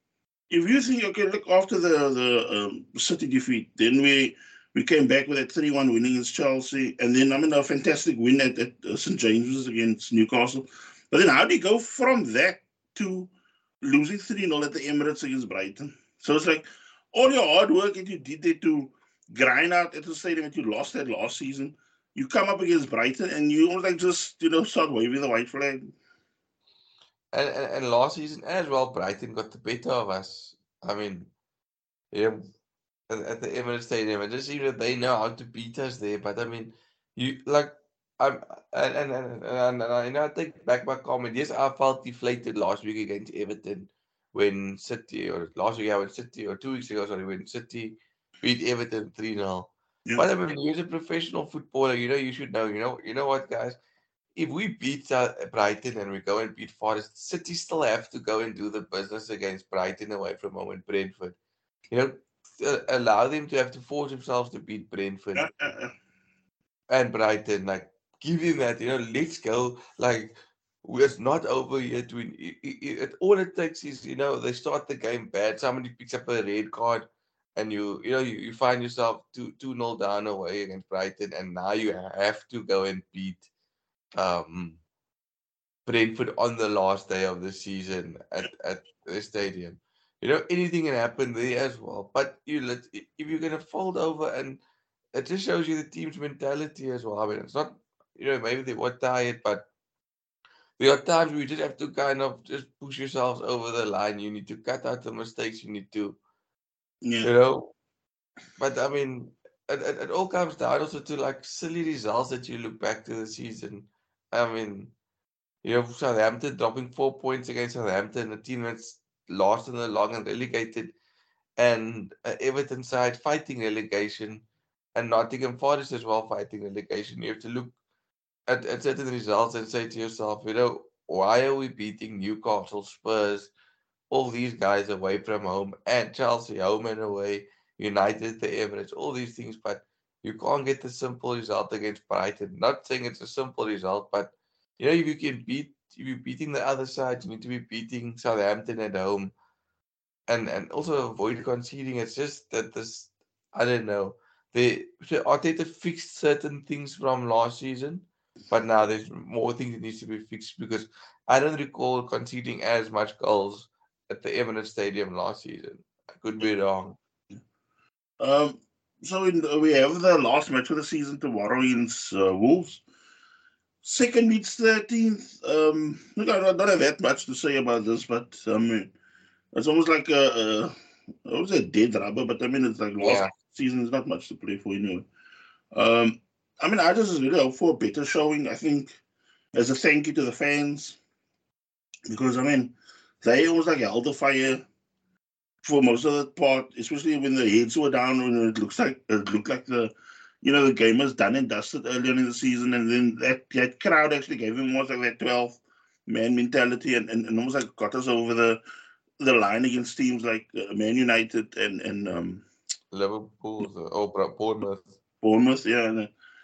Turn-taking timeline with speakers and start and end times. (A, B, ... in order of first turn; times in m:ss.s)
0:00.5-0:13.3 A
0:13.8-0:25.9 A
0:27.3-0:31.3 B
0:32.1-0:32.5 B
0:33.1-0:53.8 B
0:54.4-1:01.4 B
1:01.9-1:05.5 B
1:05.3-1:05.9 A
1:06.9-1:23.4 B
1:24.2-1:24.8 B
1:25.8-1:34.6 B
1:35.1-1:39.6 B
1:40.8-1:46.2 B
1:47.0-1:47.3 A
1:47.2-1:47.7 B
1:48.6-1:54.9 B
1:55.6-2:00.9 B
2:01.6-2:04.4 B
2:05.0-2:07.7 B
2:08.5-2:13.5 B
2:14.1-2:29.3 B
2:30.3-2:47.0 B
2:48.2-2:52.8 A
2:53.8-2:58.9 A
2:59.5-3:00.7 A
3:01.2-3:05.1 A
3:03.0-3:03.3 B
3:05.7-3:09.0 A
3:09.5-3:11.0 A
3:12.1-3:14.6 A
3:15.6-3:28.6 A
3:29.2-3:32.4 A
3:32.9-3:34.9 B
3:35.2-3:36.1 A